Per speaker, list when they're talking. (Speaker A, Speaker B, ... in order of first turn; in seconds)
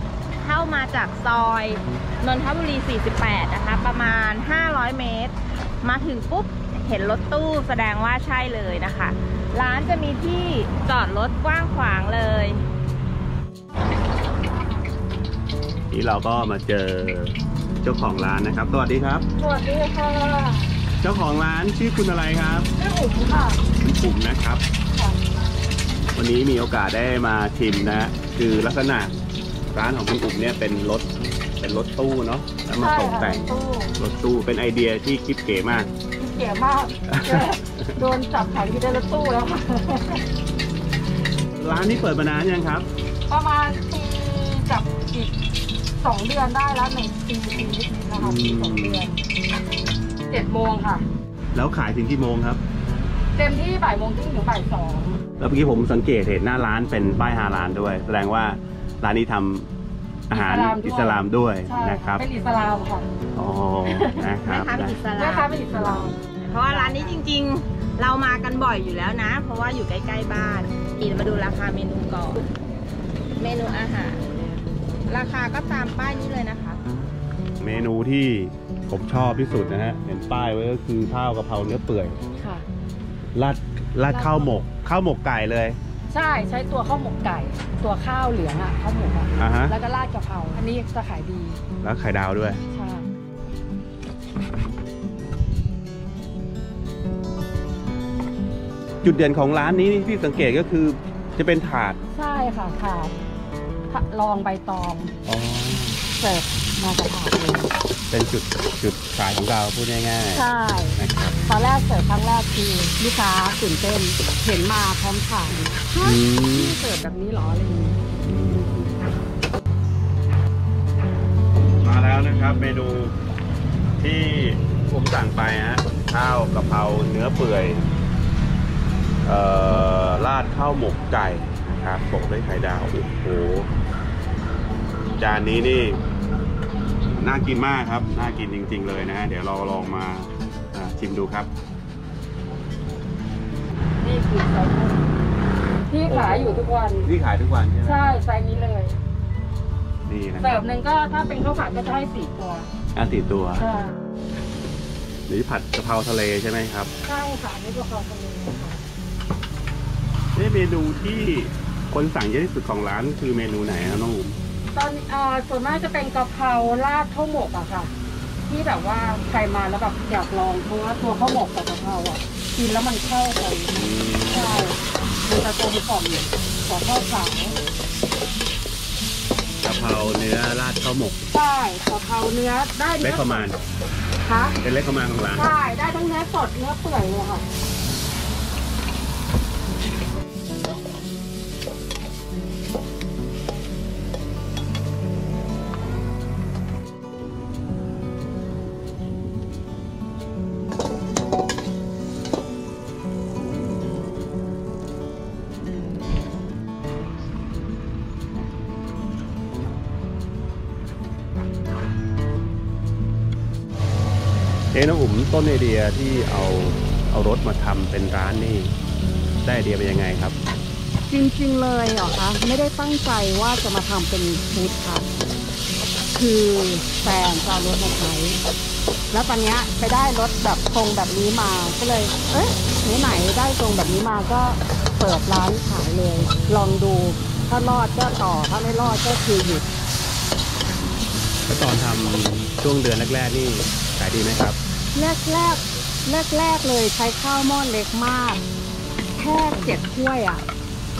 Speaker A: 0.4-12.6, 64.4-65.5, 66.4-72.5, 73.4-74.2, 75.1-76.8
Speaker B: 15.9-19.2, 21.0-22.7, 23.8-24.6, 26.1-29.1, 29.7-31.1, 31.6-35.9, 37.1-37.9, 41.6-42.9, 48.1-49.1, 51.5-52.6, 55.4-59.7, 60.3-62.2, 63.3-65.0, 77.6-82.2, 83.3-85.8, 89.4-89.7, 91.8-92.6, 99.0-102.0, 105.2-106.0, 108.1-111.3, 116.0-116.8, 118.2-119.0, 121.8-123.1, 124.0-127.9, 129.2-133.7, 135.2-136.0, 137.1-141.5, 146.1-148.2, 150.1-150.6, 152.9-153.7, 155.3-156.9, 160.3-164.4, 173.7-174.7, 179.6-181.2, 183.0-183.6, 184.6-185.5, 214.7-218.7, 219.4-220.3, 241.5-244.6
Speaker C: 19.4-20.7, 22.8-23.6, 24.9-25.2, 32.8-33.9, 36.2-40.2, 43.3-45.3, 46.0-49.2, 50.3-51.0, 53.3-55.2, 60.3-63.1, 63.9-64.2, 65.1-66.2, 66.7-67.2, 82.3-82.7, 84.1-84.6, 86.1-91.6, 92.7-93.1, 102.1-103.1, 103.9-105.1, 106.2-107.7, 110.2-118.0, 144.0-145.0, 145.9-147.1, 147.8-149.0, 150.4-152.7, 153.6-153.9, 157.0-158.8, 164.7-167.9, 168.5-177.6, 181.3-183.5, 184.2-184.6, 185.3-187.4, 221.1-225.1, 226.1-228.4, 229.1-239.7, 244.9-248.4, 249.2-250.4